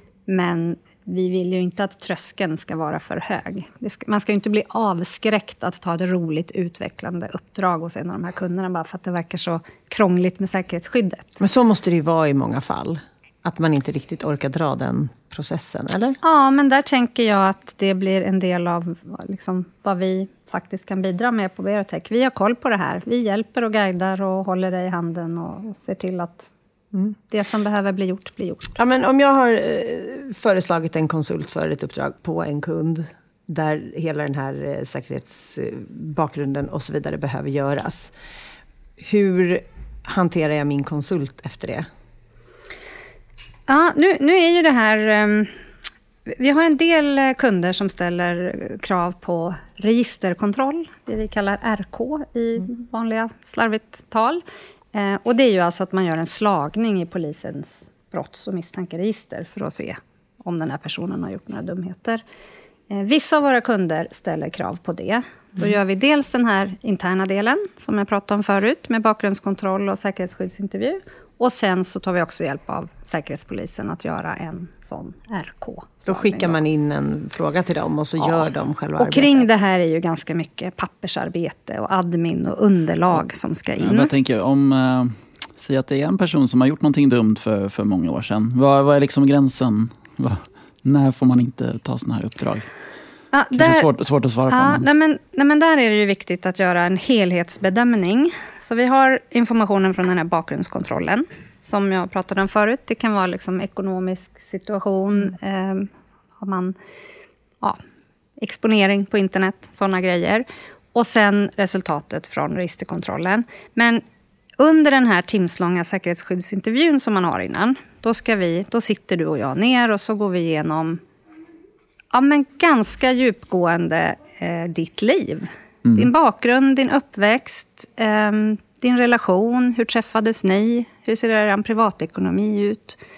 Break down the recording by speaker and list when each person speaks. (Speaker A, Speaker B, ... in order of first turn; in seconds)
Speaker A: 0.3-11.4, 16.2-26.5, 27.3-28.8, 43.7-45.5, 46.3-54.4, 54.9-62.2, 62.9-76.6, 79.0-84.1, 93.3-93.9, 94.5-105.9, 106.4-106.8, 108.4-114.0, 114.6-121.0, 122.1-133.0
Speaker B: 11.4-16.2, 28.8-38.1, 39.0-41.9, 76.1-79.5
Speaker C: 83.8-92.7, 93.5-94.9, 125.8-126.1